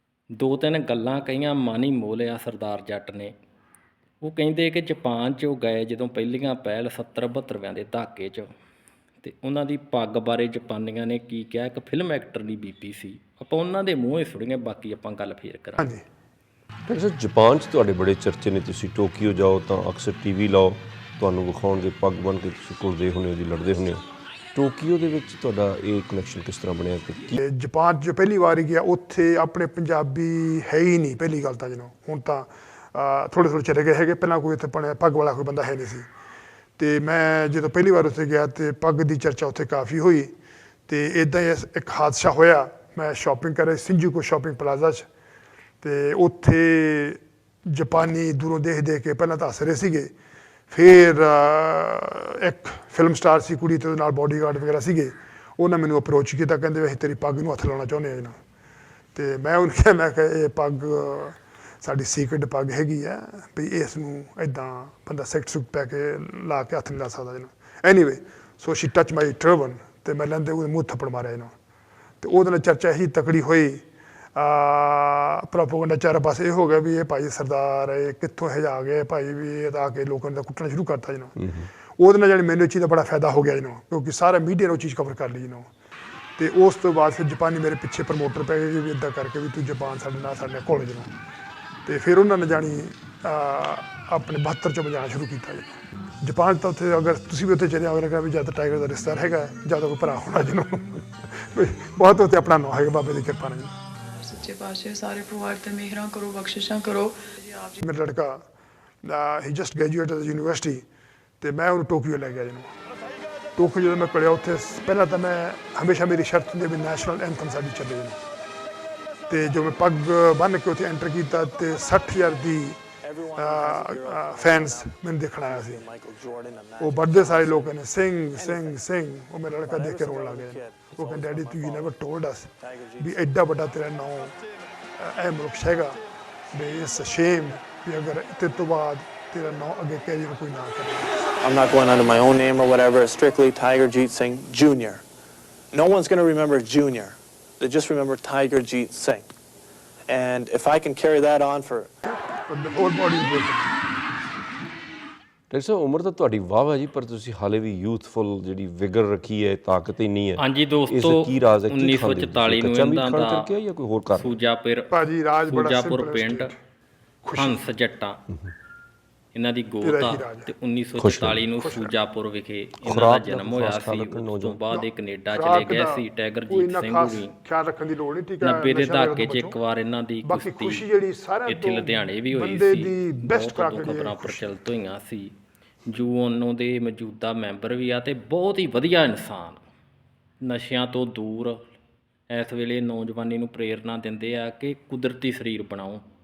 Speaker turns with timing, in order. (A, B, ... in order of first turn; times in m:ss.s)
0:00.3-0:03.3 A
0:04.2-0:08.5 A
0:09.2-0:15.9 A
0:16.9-0:27.4 B
0:27.3-0:36.1 C
0:36.8-0:40.3 C
0:40.9-0:45.0 C
0:45.8-0:50.1 C
0:50.7-0:58.4 C
0:59.1-1:11.5 C
1:12.2-1:13.8 C
1:14.4-1:25.7 C
1:26.4-1:31.1 C
1:31.8-1:43.7 C
1:44.3-1:47.7 D
1:47.8-1:48.4 C
1:49.0-1:50.8 C
1:51.4-1:52.7 C
1:53.6-1:58.2 C
1:59.3-2:02.8 C
2:03.0-2:07.8 E
2:03.3-2:05.8 C
2:06.8-2:14.4 C
2:08.3-2:08.8 E
2:09.6-2:12.0 E
2:12.6-2:13.2 E
2:15.0-2:16.0 C
2:16.5-2:21.1 C
2:21.4-2:25.0 E
2:25.7-2:29.3 E
2:30.1-2:31.9 E
2:32.0-2:33.7 C
2:35.5-2:44.4 B
2:40.4-2:43.5 A
2:44.1-2:44.9 A
2:44.9-2:46.6 C
2:45.5-2:46.5 A
2:47.2-2:47.6 C
2:47.3-2:48.2 A
2:49.3-2:57.3 A
2:49.8-2:50.5 C
2:51.0-2:51.5 B
2:51.6-2:51.9 C
2:52.8-2:54.6 B
2:54.7-2:59.6 C
2:58.4-3:00.9 A
3:00.2-3:04.5 C
3:01.5-3:05.3 A
3:05.9-3:09.6 A
3:10.4-3:11.6 A
3:12.3-3:16.0 A